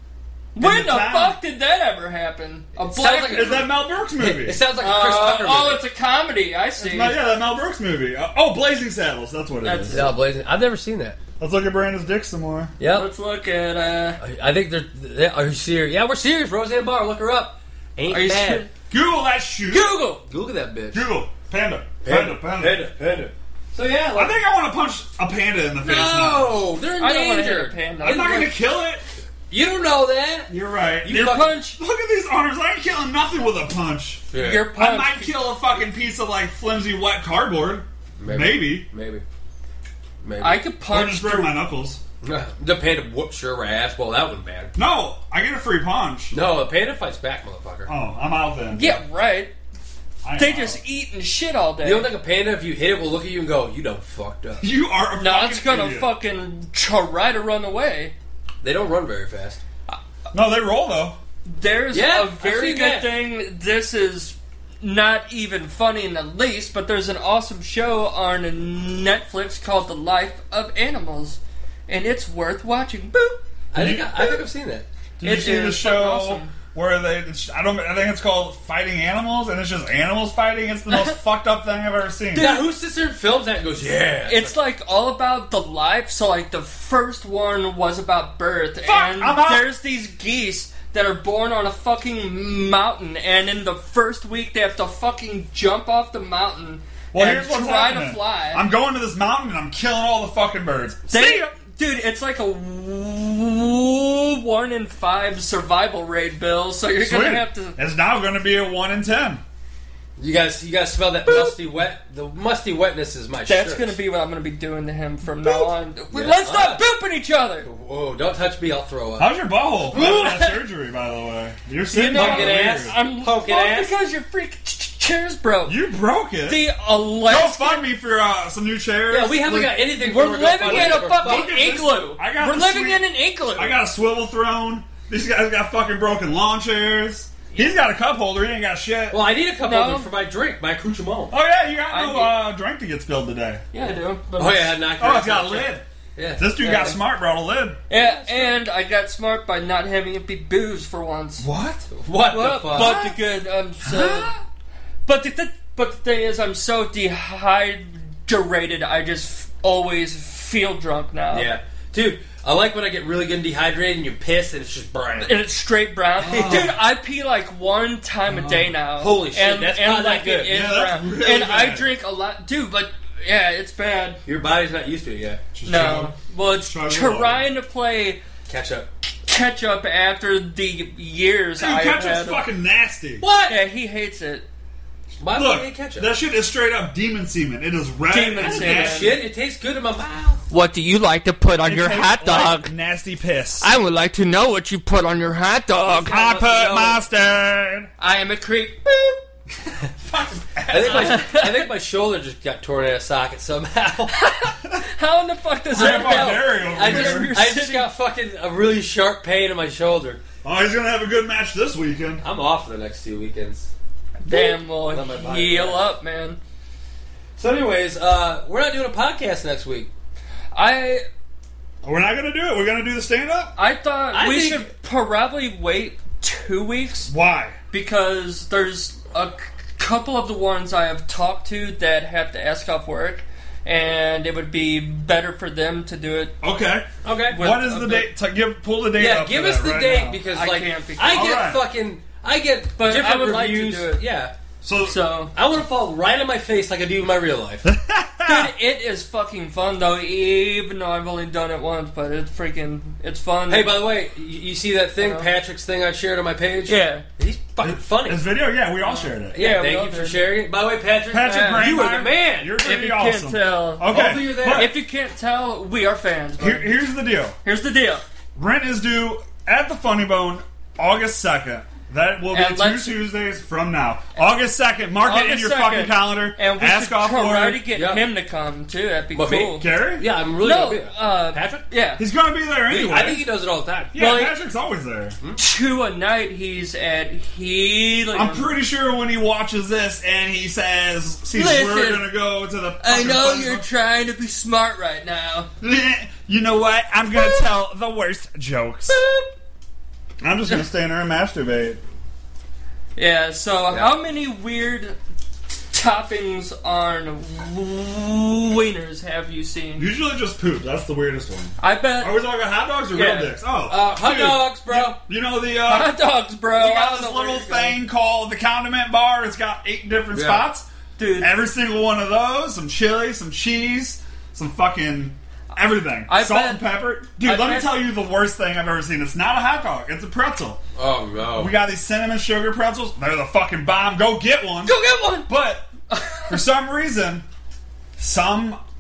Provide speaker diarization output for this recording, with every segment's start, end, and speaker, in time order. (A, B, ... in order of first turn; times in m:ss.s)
0:00.6-0:03.7 A
0:00.6-0:01.4 B
0:02.8-0:05.8 C
0:03.3-0:04.6 B
0:04.8-0:07.2 A
0:06.8-0:10.1 B
0:09.6-0:10.1 A
0:09.9-0:11.2 C
0:11.4-0:12.7 B
0:12.8-0:13.1 C
0:12.9-0:14.2 A
0:14.2-0:18.7 C
0:18.1-0:18.7 A
0:18.9-0:20.0 B
0:19.7-0:20.2 A
0:20.0-0:21.1 C
0:20.9-0:22.9 B
0:22.0-0:24.4 C
0:24.2-0:26.6 B
0:25.8-0:27.8 C
0:27.0-0:28.5 A
0:28.0-0:29.0 B
0:29.5-0:30.5 C
0:30.5-0:38.9 B
0:31.0-0:31.6 C
0:31.1-0:31.8 A
0:34.3-0:34.7 C
0:34.4-0:35.4 A
0:38.2-0:39.2 C
0:40.2-0:40.6 C
0:40.4-0:41.6 A
0:40.9-0:42.0 B
0:42.2-0:44.7 C
0:44.8-0:46.3 B
0:46.3-0:47.9 C
0:47.9-0:49.0 B
0:48.8-0:49.5 A
0:50.2-0:50.8 B
0:50.4-0:52.1 A
0:51.8-0:54.6 C
0:54.6-0:56.1 B
0:55.2-0:58.1 A
0:58.6-0:59.6 C
1:00.3-1:01.2 B
1:01.5-1:13.4 A
1:01.9-1:03.1 C
1:13.7-1:14.9 C
1:13.8-1:14.4 B
1:15.2-1:22.5 B
1:15.2-1:16.5 A
1:22.3-1:22.7 A
1:22.4-1:24.6 C
1:24.3-1:38.6 A
1:28.9-1:29.7 B
1:37.1-1:41.5 B
1:41.1-1:47.8 A
1:47.0-1:49.4 B
1:50.2-1:54.0 C
1:51.3-1:51.6 A
1:53.5-1:57.7 A
1:55.4-1:55.7 B
1:56.1-1:56.8 C
1:57.6-1:59.3 C
1:59.2-2:03.0 B
1:59.9-2:00.6 A
1:59.9-2:00.4 C
2:01.9-2:03.9 C
2:02.0-2:05.8 A
2:05.7-2:06.6 B
2:06.5-2:07.9 A
2:07.3-2:09.9 B
2:09.1-2:11.5 C
2:10.0-2:13.8 A
2:10.6-2:19.2 B
2:19.1-2:21.3 C
2:19.6-2:20.1 A
2:21.3-2:23.6 B
2:21.9-2:22.4 A
2:23.7-2:24.8 A
2:24.4-2:26.5 C
2:25.0-2:25.8 B
2:26.4-2:27.8 B
2:26.6-2:27.0 A
2:27.9-2:31.5 A
2:27.9-2:28.5 C
2:31.4-2:31.9 B
2:31.9-2:33.0 C
2:32.3-2:34.4 A
2:32.7-2:33.2 B
2:33.8-2:34.4 B
2:35.1-2:41.5 A
2:41.3-2:45.4 C
2:45.2-2:54.2 A
2:46.2-2:46.8 B
2:46.3-2:46.7 C
2:48.3-2:48.7 B
2:49.0-2:50.6 C
2:50.5-2:51.9 B
2:54.3-2:55.4 C
2:55.5-2:56.2 B
2:55.6-2:58.2 A
2:56.7-2:57.4 B
2:58.5-2:58.9 C
2:59.3-3:02.4 A
3:01.6-3:03.2 B
3:03.2-3:03.6 C
3:03.5-3:04.4 A
3:05.2-3:06.1 C
3:05.3-3:09.2 B
3:08.1-3:09.2 A
3:08.4-3:10.4 C
3:10.5-3:12.7 A
3:11.6-3:13.7 B
3:13.6-3:16.2 A
3:16.0-3:17.0 C
3:16.1-3:17.9 B
3:18.0-3:19.2 A
3:20.0-3:21.3 B
3:20.7-3:24.2 C
3:20.9-3:21.7 A
3:24.1-3:27.9 A
3:25.7-3:30.2 C
3:25.8-3:27.3 B
3:30.4-3:32.2 B
3:32.2-3:33.7 C
3:34.3-3:36.4 A
3:34.8-3:35.9 C
3:37.4-3:39.9 C
3:40.5-3:41.0 A
3:41.8-3:43.5 B
3:43.6-3:47.1 A
3:44.1-3:44.7 C
3:47.1-3:47.6 B
3:47.7-3:56.4 A
3:56.4-4:00.2 B
3:57.0-3:57.4 C
3:57.3-3:58.1 A
3:59.0-4:04.3 C
4:00.3-4:01.4 A
4:01.1-4:01.6 B
4:02.8-4:04.0 A
4:04.6-4:05.0 B
4:04.8-4:05.3 A
4:05.3-4:07.7 C
4:07.6-4:08.5 B
4:08.2-4:13.8 A
4:13.5-4:18.2 C
4:15.0-4:15.3 A
4:16.7-4:17.0 A
4:17.6-4:19.4 B
4:18.8-4:20.2 A
4:19.3-4:22.6 C
4:21.1-4:24.7 B
4:21.2-4:21.7 A
4:22.6-4:26.8 A
4:23.8-4:24.7 C
4:26.4-4:27.4 B
4:27.4-4:28.0 A
4:28.4-4:37.6 B
4:32.3-4:33.0 A
4:35.0-4:39.7 A
4:37.7-4:38.1 C
4:39.1-4:41.6 C
4:39.6-4:40.1 B
4:40.4-4:42.0 A
4:42.0-4:43.3 B
4:42.7-4:44.0 C
4:43.9-4:45.2 B
4:44.0-4:44.4 A
4:45.4-4:48.5 A
4:48.1-4:53.7 B
4:51.3-4:52.1 A
4:52.8-4:55.5 A
4:55.6-4:59.0 B
4:58.9-4:59.2 A
5:00.2-5:01.8 B
5:03.0-5:05.0 A
5:05.7-5:09.9 A
5:09.8-5:16.0 B
5:11.6-5:12.2 A
5:12.9-5:13.3 A
5:13.7-5:15.0 C
5:15.7-5:17.8 A
5:16.5-5:20.7 B
5:20.1-5:20.5 C
5:21.0-5:21.3 A
5:21.2-5:30.6 B
5:26.1-5:26.7 A
5:27.2-5:27.7 A
5:30.8-5:31.6 C
5:31.4-5:35.7 B
5:34.6-5:35.3 A
5:35.9-5:36.4 A
5:36.3-5:37.2 B
5:38.0-5:38.6 B